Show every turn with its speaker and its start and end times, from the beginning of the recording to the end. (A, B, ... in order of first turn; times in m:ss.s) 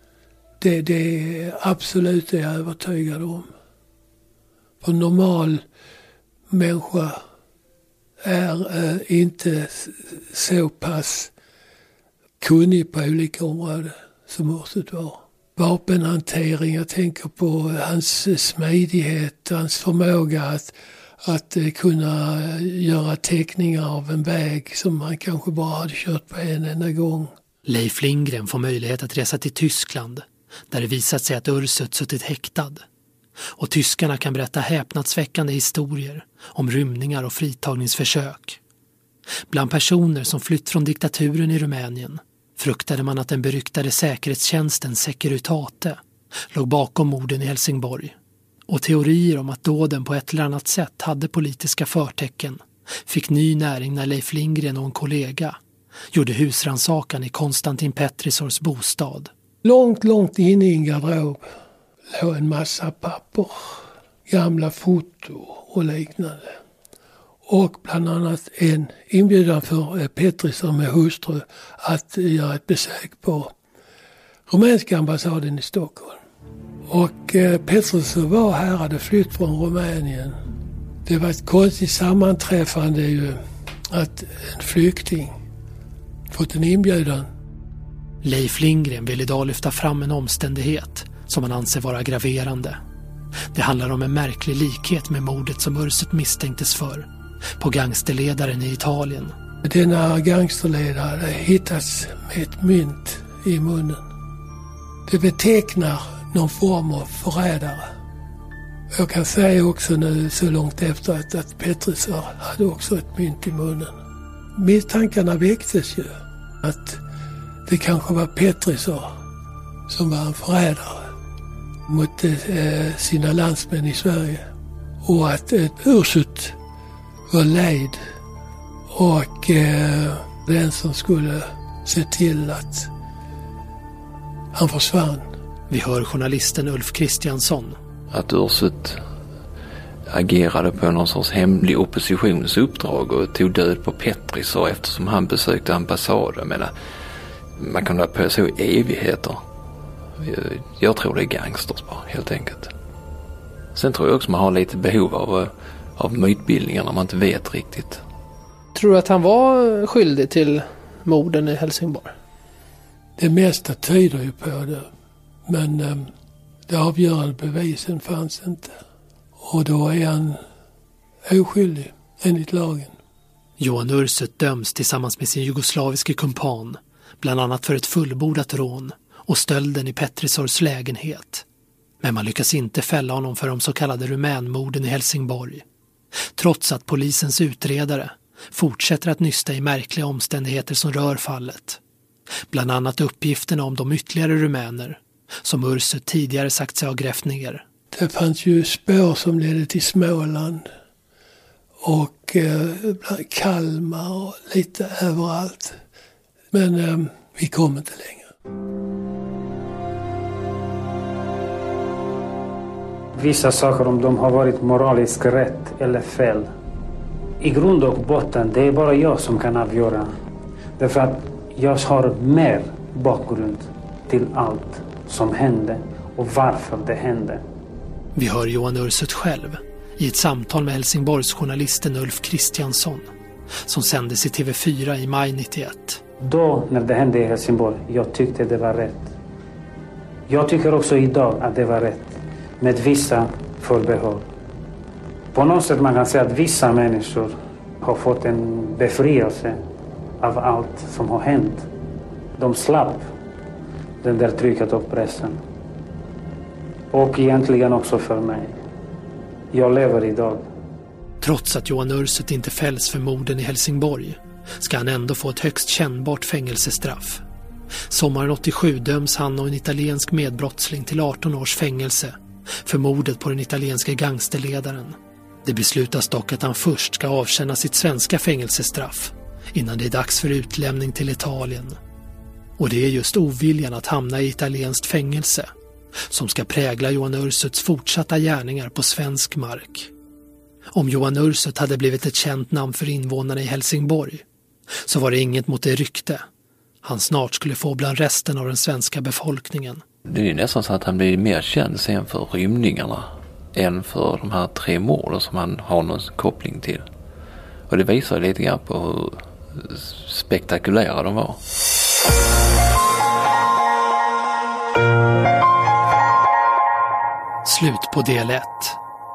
0:00.6-0:03.5 A
0:04.8-0:05.6 A
0:06.5-0:07.2 A
0:08.2-0:11.3 A
0:12.4-0:20.7 A
0:21.2-0:27.3 A
0:27.6-0:32.8 B
0:33.6-0:38.6 B
0:39.5-0:46.0 B
0:46.5-0:48.1 B
0:48.7-0:55.6 B
0:56.1-0:59.3 B
0:59.6-1:01.5 A
1:02.1-1:03.6 A
1:04.3-1:06.5 A
1:07.5-1:13.5 A
1:14.5-1:16.2 A
1:16.9-1:20.3 A
1:21.0-1:23.4 A
1:23.9-1:25.3 A
1:26.3-1:27.3 A
1:28.2-1:32.8 B
1:33.5-1:37.1 B
1:37.6-1:39.3 B
1:39.6-1:44.0 A
1:45.1-1:47.9 A
1:48.9-1:53.9 A
1:54.6-1:56.1 A
1:56.6-1:57.0 A
1:57.7-1:59.1 A
1:59.9-2:01.1 A
2:01.9-2:04.4 A
2:05.0-2:06.6 A
2:07.3-2:08.0 A
2:08.9-2:12.9 A
2:14.5-2:15.2 A
2:15.7-2:17.8 B
2:18.1-2:19.0 C
2:20.1-2:26.7 C
2:27.6-2:29.4 C
2:30.2-2:32.7 C
2:33.7-2:38.0 C
2:38.7-2:42.1 D
2:43.2-2:44.9 A
2:45.5-2:46.1 A
2:46.7-2:48.7 A
2:49.4-2:50.4 A
2:51.2-2:52.9 A
2:53.6-3:01.4 B
3:02.0-3:05.6 B
3:06.4-3:11.8 B
3:12.5-3:17.6 B
3:17.9-3:20.6 A
3:21.8-3:25.8 A
3:26.5-3:28.3 A
3:33.1-3:36.5 E
3:37.4-3:40.1 E
3:40.8-3:47.4 E
3:48.2-3:53.1 B
3:53.6-3:56.0 B
3:56.2-3:59.1 E
4:00.3-4:04.3 E
4:05.3-4:09.6 E
4:10.2-4:11.6 E
4:12.4-4:13.1 E
4:14.0-4:15.4 E
4:16.9-4:18.6 E
4:19.5-4:20.4 E
4:21.2-4:27.2 B
4:27.9-4:41.8 B
4:42.6-4:45.5 B
4:46.1-4:49.9 B
4:50.7-4:54.2 B
4:54.8-4:56.2 B
4:56.8-4:59.8 B
5:00.1-5:06.8 C
5:07.7-5:11.4 C
5:17.4-5:18.8 B